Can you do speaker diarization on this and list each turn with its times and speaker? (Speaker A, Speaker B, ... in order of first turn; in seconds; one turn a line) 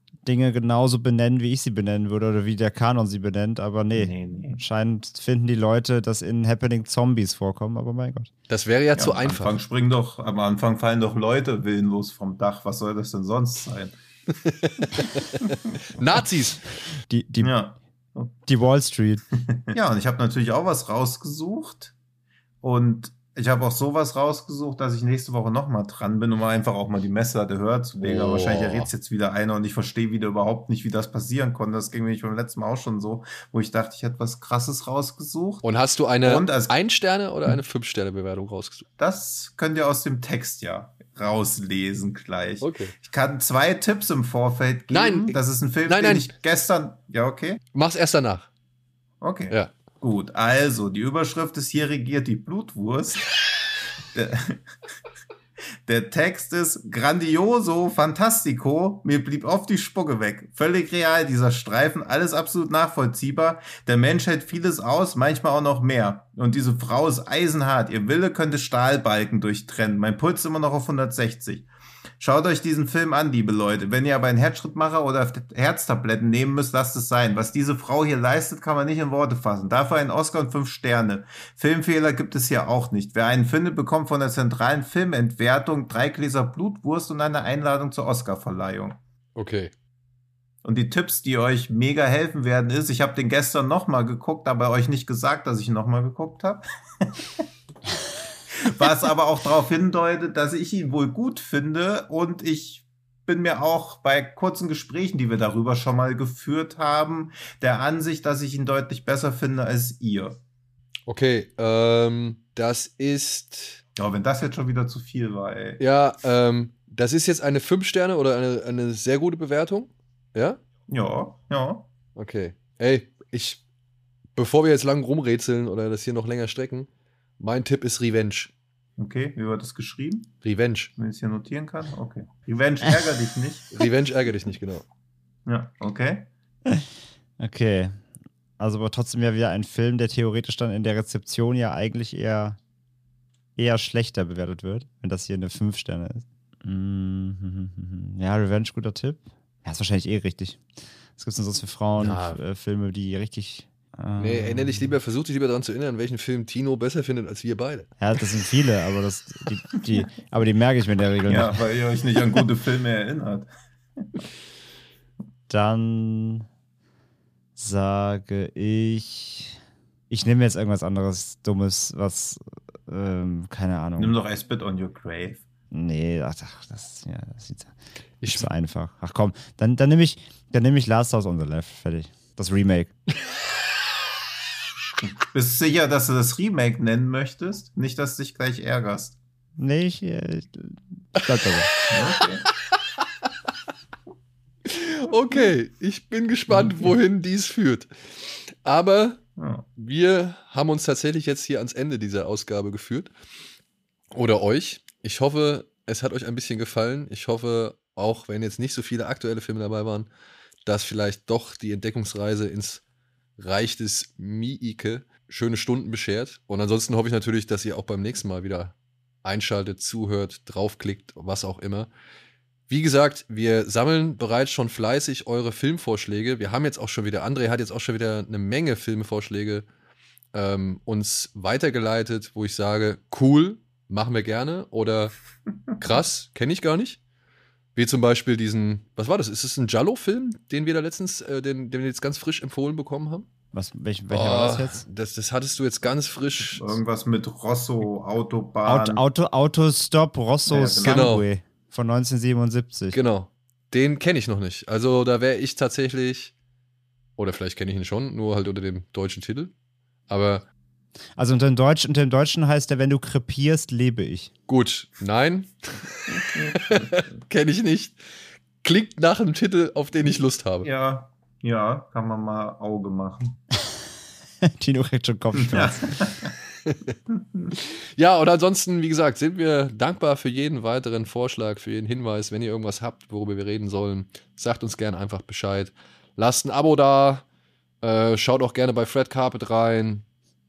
Speaker A: 0.2-8.3
Speaker B: 4.0-4.6
Speaker C: 8.5-9.6
Speaker B: 9.0-13.9
Speaker C: 14.3-16.8
Speaker A: 17.1-17.5
Speaker B: 17.4-18.3
Speaker A: 18.5-19.2
Speaker B: 19.7-21.9
Speaker B: 22.6-35.6
Speaker C: 28.0-28.9
Speaker C: 35.6-38.8
Speaker B: 36.2-36.7
Speaker B: 39.0-47.6
Speaker C: 42.6-42.9
Speaker C: 44.9-46.3
Speaker C: 47.7-48.5
Speaker B: 49.2-53.3
Speaker B: 54.0-54.6
Speaker B: 55.9-71.7
Speaker B: 72.2-89.0
Speaker C: 89.3-89.7
Speaker B: 90.6-97.4
Speaker B: 98.5-110.4
Speaker C: 111.1-113.8
Speaker B: 114.0-115.8
Speaker C: 115.8-120.6
Speaker B: 120.9-121.8
Speaker C: 122.2-123.6
Speaker C: 124.3-128.5
Speaker B: 129.0-130.4
Speaker C: 130.4-130.9
Speaker B: 130.9-133.8
Speaker C: 133.8-134.8
Speaker B: 135.4-136.3
Speaker A: 137.4-138.0
Speaker A: 138.6-142.6
Speaker A: 143.6-150.6
Speaker A: 151.2-154.9
Speaker C: 152.0-152.4
Speaker C: 154.2-157.9
Speaker A: 158.0-161.6
Speaker B: 161.3-163.5
Speaker B: 164.0-164.2
Speaker A: 165.5-166.4
Speaker A: 167.6-169.6
Speaker A: 170.1-174.1
Speaker B: 174.0-175.4
Speaker A: 175.7-177.7
Speaker C: 178.2-178.5
Speaker A: 178.2-182.9
Speaker B: 185.0-189.2
Speaker A: 189.6-191.7
Speaker C: 191.2-193.3
Speaker B: 191.9-192.4
Speaker C: 194.7-199.2
Speaker B: 199.4-199.6
Speaker C: 199.8-203.1
Speaker C: 204.1-210.1
Speaker C: 210.6-212.8
Speaker C: 213.4-221.9
Speaker C: 222.7-229.6
Speaker C: 230.3-235.1
Speaker C: 235.8-237.0
Speaker C: 237.7-243.3
Speaker A: 243.5-244.8
Speaker C: 244.1-246.8
Speaker B: 246.4-249.0
Speaker A: 248.7-253.0
Speaker B: 250.5-251.2
Speaker C: 250.8-251.2
Speaker C: 252.9-256.3
Speaker C: 257.2-259.5
Speaker C: 260.1-260.4
Speaker A: 261.2-264.3
Speaker C: 264.5-268.0
Speaker C: 268.6-270.7
Speaker B: 270.6-273.3
Speaker A: 274.4-276.0
Speaker B: 275.4-276.3
Speaker C: 276.6-276.9
Speaker C: 277.5-287.2
Speaker C: 287.8-290.0